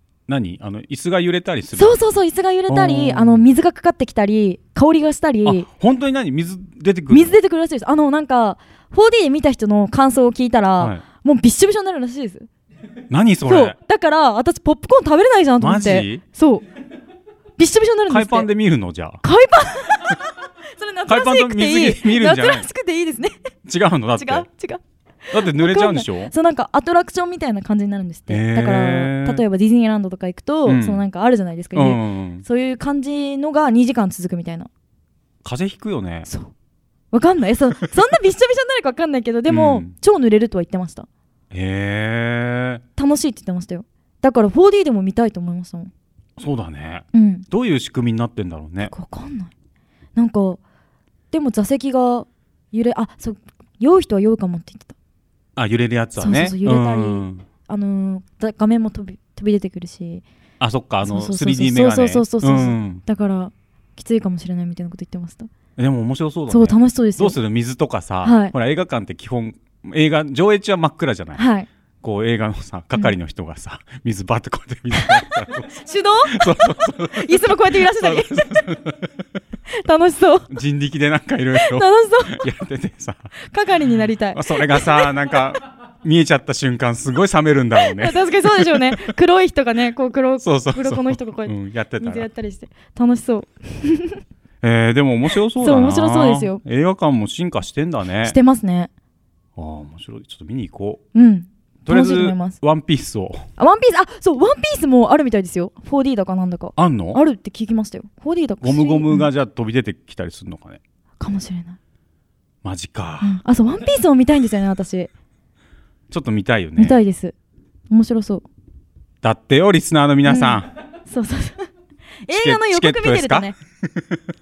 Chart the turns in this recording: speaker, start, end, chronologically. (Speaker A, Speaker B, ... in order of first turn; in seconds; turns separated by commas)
Speaker A: 0.3-2.0, Speaker B: 1.7-5.7, Speaker A: 2.7-3.4, Speaker A: 5.4-7.4, Speaker B: 7.1-12.5, Speaker A: 13.1-13.7, Speaker B: 13.5-16.6, Speaker A: 15.6-16.2, Speaker B: 17.6-18.5, Speaker A: 18.1-19.2, Speaker B: 19.2-20.2, Speaker B: 20.7-23.4, Speaker A: 21.1-22.7, Speaker A: 23.6-24.4, Speaker B: 24.2-34.7, Speaker A: 25.3-26.3, Speaker A: 28.3-29.4, Speaker A: 30.6-31.0, Speaker A: 31.7-32.4, Speaker A: 35.4-36.3, Speaker B: 37.1-41.1, Speaker A: 39.5-39.9, Speaker A: 41.5-42.8, Speaker B: 43.0-45.9, Speaker A: 46.4-48.9, Speaker B: 47.1-47.4, Speaker B: 48.8-49.5, Speaker B: 50.1-50.6, Speaker B: 51.3-54.9, Speaker A: 55.5-57.4, Speaker B: 56.2-60.2, Speaker A: 60.6-63.0, Speaker B: 61.0-65.5, Speaker A: 65.8-71.4, Speaker B: 66.5-67.4, Speaker B: 68.2-68.5, Speaker B: 71.3-71.7, Speaker A: 72.0-79.1, Speaker B: 75.0-78.6, Speaker B: 79.8-80.5, Speaker A: 80.5-83.3, Speaker B: 81.6-82.5, Speaker B: 83.4-85.1, Speaker A: 84.3-89.0, Speaker B: 87.8-94.2, Speaker A: 90.4-92.2, Speaker A: 94.6-98.3, Speaker B: 95.6-96.6, Speaker B: 98.2-98.9, Speaker A: 99.6-101.0, Speaker B: 101.1-102.6, Speaker A: 101.8-103.5, Speaker B: 103.6-109.3, Speaker A: 106.8-107.2, Speaker A: 108.6-110.8, Speaker B: 111.2-111.8, Speaker A: 112.6-113.4, Speaker B: 113.2-115.1, Speaker A: 116.1-117.0, Speaker B: 116.8-117.3, Speaker B: 117.9-118.4, Speaker A: 119.2-120.7, Speaker B: 120.2-121.7, Speaker B: 122.2-123.5, Speaker A: 122.3-124.2